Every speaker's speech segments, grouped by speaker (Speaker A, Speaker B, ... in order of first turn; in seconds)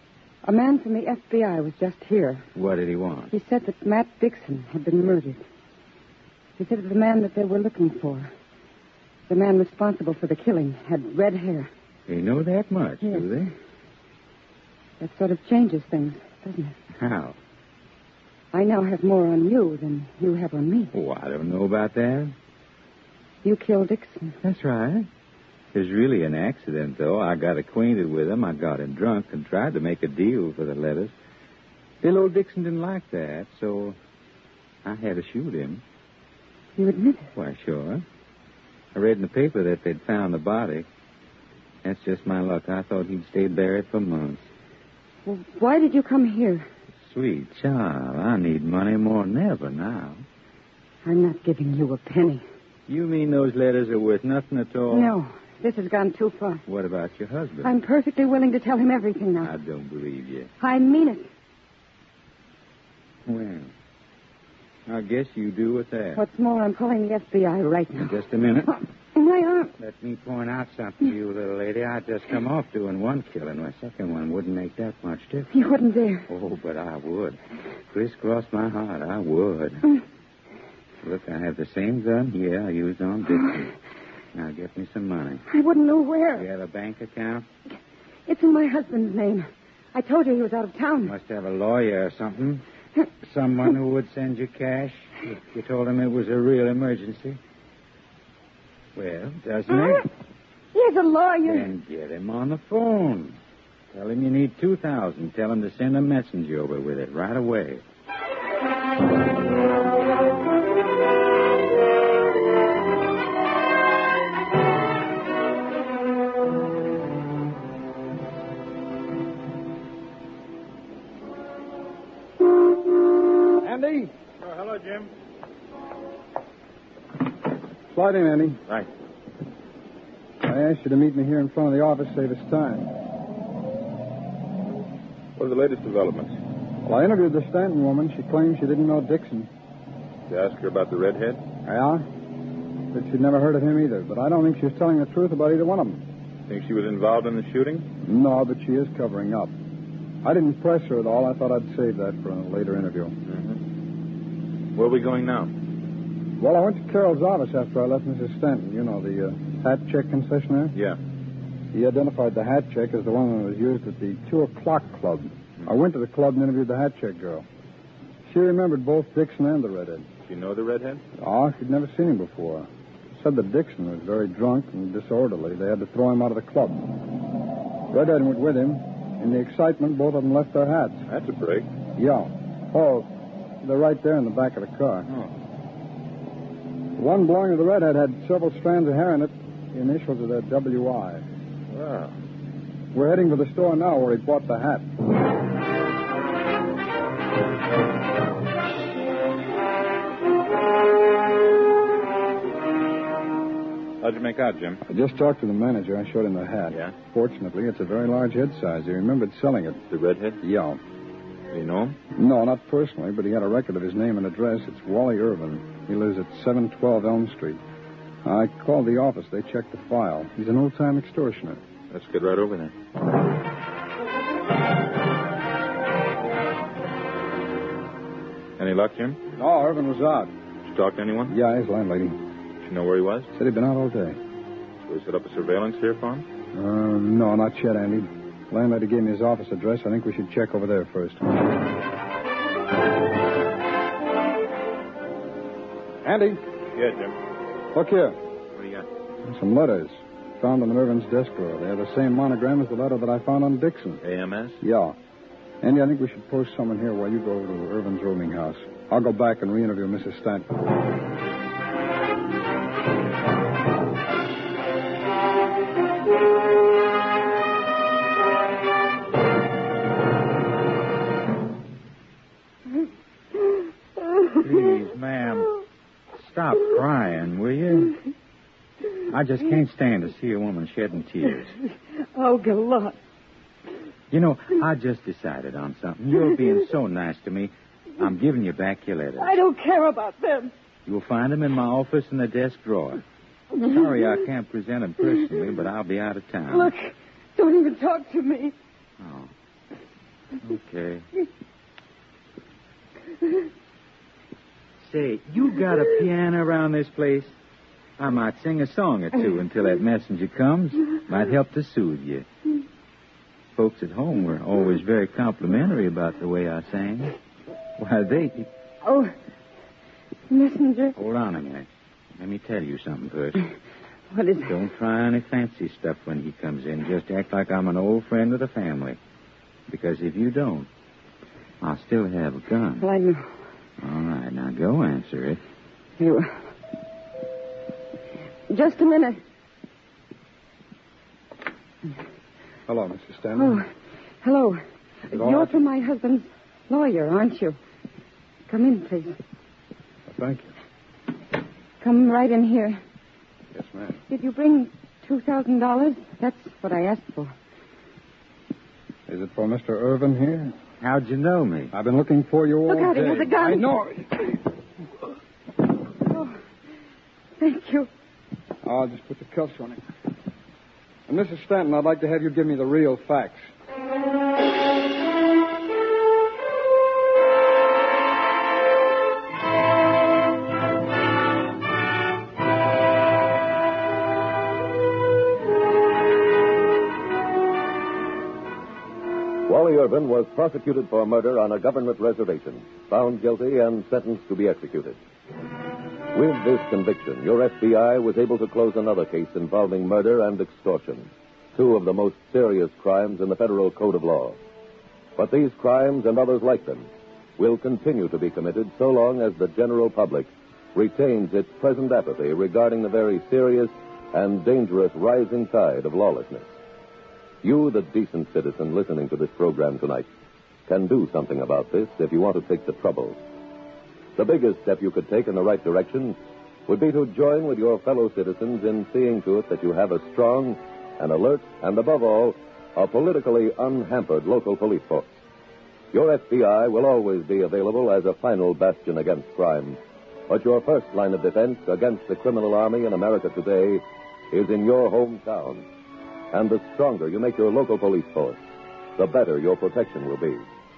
Speaker A: 0.4-2.5, 3.3-5.4, 6.6-8.3, 9.3-11.7, 13.0-13.3, 15.0-16.7, 18.5-20.9, 23.4-24.4, 36.8-37.3, 45.2-46.7, 51.0-52.4, 54.9-56.6, 57.6-59.5, 60.6-61.3, 66.1-68.1, 69.1-69.7, 75.5-76.2, 85.5-86.4, 88.3-91.1, 99.7-100.0, 100.7-101.7, 282.1-282.9, 289.2-290.5, 296.5-298.5, 318.8-319.1, 320.3-320.9, 324.1-324.5, 332.8-333.3, 336.0-336.4, 338.5-339.2, 343.4-343.6, 344.2-347.6, 348.5-349.2, 351.8-352.8, 354.1-357.3, 362.7-363.7, 367.4-367.9
Speaker B: 2.5-3.3, 12.1-13.5, 17.0-17.4, 20.9-22.3, 24.4-25.1, 25.7-31.1, 32.0-34.0, 34.9-35.8, 37.4-38.0, 38.9-40.9, 41.8-44.5, 47.1-50.2, 52.9-55.1, 56.7-57.7, 59.4-60.5, 63.2-63.7, 64.9-66.2, 68.0-68.8, 69.8-75.5, 76.3-77.4, 77.9-80.0, 81.0-83.8, 84.3-85.5, 86.4-87.5, 91.0-92.6, 93.2-97.4, 99.0-100.1, 101.5-103.4, 103.9-107.8, 274.4-275.6, 276.2-277.9, 279.1-281.6, 284.1-289.4, 290.9-293.0, 293.6-296.7, 299.0-299.3, 300.4-301.0, 304.8-307.3, 308.0-312.2, 313.6-317.2, 317.8-318.5, 321.0-321.7, 322.2-323.5, 324.4-329.0, 329.7-330.7, 331.6-332.9, 333.8-335.4, 360.8-361.7
Speaker C: 123.6-124.1, 127.9-128.6, 130.4-132.9, 136.8-139.5, 141.6-142.1, 142.9-146.0, 148.0-149.5, 150.2-153.1, 156.4-160.7, 161.7-167.4, 168.2-170.1, 171.2-177.0, 177.9-181.0, 182.0-183.1, 183.6-185.1, 186.9-191.2, 192.9-194.9, 204.9-209.8, 210.4-210.8, 212.1-217.6, 218.2-221.6, 229.3-230.3, 231.3-232.2, 233.3-234.2, 236.5-241.5, 246.0-246.4, 247.7-248.2, 249.2-254.0, 254.6-254.9, 255.6-260.5, 342.7-343.6, 345.1-345.5, 350.1-350.5, 353.5-354.0, 359.1-360.6, 361.7-364.4, 368.6-369.8, 371.1-373.4
Speaker D: 124.4-125.1, 135.4-136.3, 140.3-141.4, 146.5-147.9, 153.2-153.6, 154.7-155.5, 170.3-171.0, 181.1-181.7, 191.7-192.1, 204.0-204.8, 206.7-206.9, 209.9-210.4, 211.5-212.0, 221.9-222.7, 228.6-229.2, 230.7-231.3, 232.6-233.3, 234.8-236.2, 246.8-247.2, 248.5-248.9, 254.0-254.6
Speaker E: 389.5-395.0, 396.1-404.4, 405.1-416.5, 417.4-420.1, 420.7-423.2, 424.1-435.1, 435.9-445.6, 446.3-448.4, 449.0-450.4